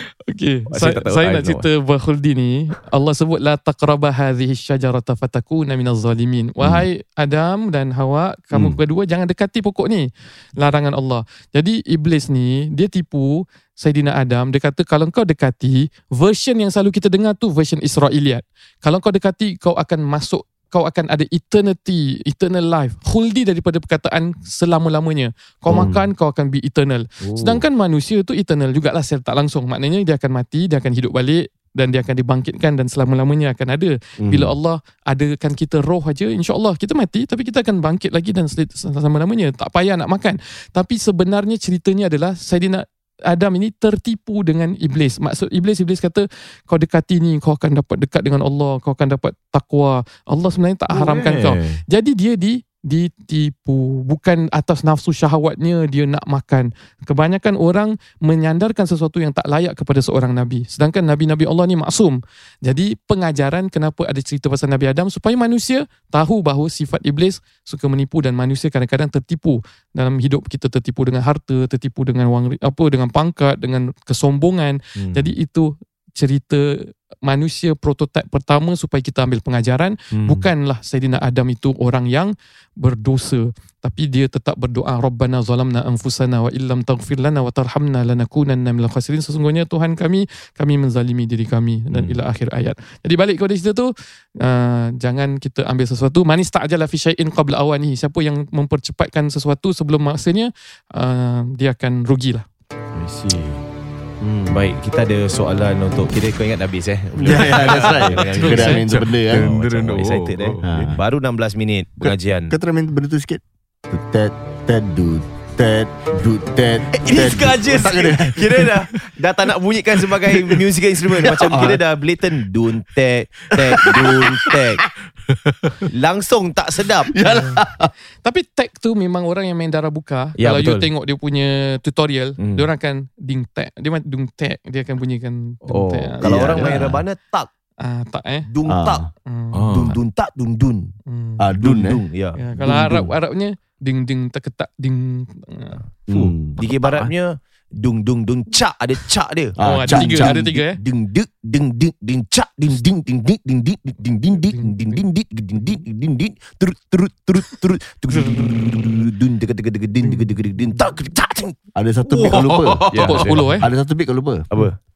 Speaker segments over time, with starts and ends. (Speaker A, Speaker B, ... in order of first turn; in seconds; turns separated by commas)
Speaker A: 0.3-102.4, Speaker B: 0.7-1.7, Speaker C: 25.7-25.9, Speaker D: 27.2-27.6, Speaker C: 34.2-34.5, Speaker D: 50.9-51.8, Speaker D: 75.0-75.3, Speaker B: 80.1-80.5, Speaker D: 91.9-92.2, Speaker D: 102.9-103.6, Speaker B: 104.2-112.5, Speaker C: 107.2-109.5, Speaker D: 107.3-108.2, Speaker A: 108.3-108.8, Speaker D: 108.8-110.9, Speaker C: 110.6-111.0, Speaker C: 112.0-118.8, Speaker B: 116.9-124.8, Speaker C: 121.2-121.8, Speaker C: 123.6-124.6, Speaker B: 125.9-127.2, Speaker C: 127.1-127.9, Speaker A: 127.3-127.6, Speaker A: 128.2-136.7, Speaker B: 130.4-130.9, Speaker B: 132.4-132.7, Speaker B: 135.7-137.5, Speaker C: 136.2-137.0, Speaker A: 137.8-138.5, Speaker B: 138.5-139.1, Speaker C: 138.7-139.1, Speaker A: 139.3-139.7, Speaker D: 139.5-140.0, Speaker B: 139.7-140.9, Speaker A: 141.1-141.5, Speaker C: 141.4-142.0, Speaker B: 141.6-142.4, Speaker A: 142.3-145.8, Speaker C: 142.6-143.1, Speaker C: 146.1-146.6, Speaker D: 146.1-147.1, Speaker B: 146.6-163.7, Speaker C: 149.6-150.4, Speaker A: 149.6-150.8, Speaker A: 154.5-155.0, Speaker A: 158.1-158.6, Speaker A: 160.0-160.3, Speaker C: 161.7-164.4, Speaker D: 162.2-163.3, Speaker A: 163.0-163.7, Speaker B: 164.5-164.8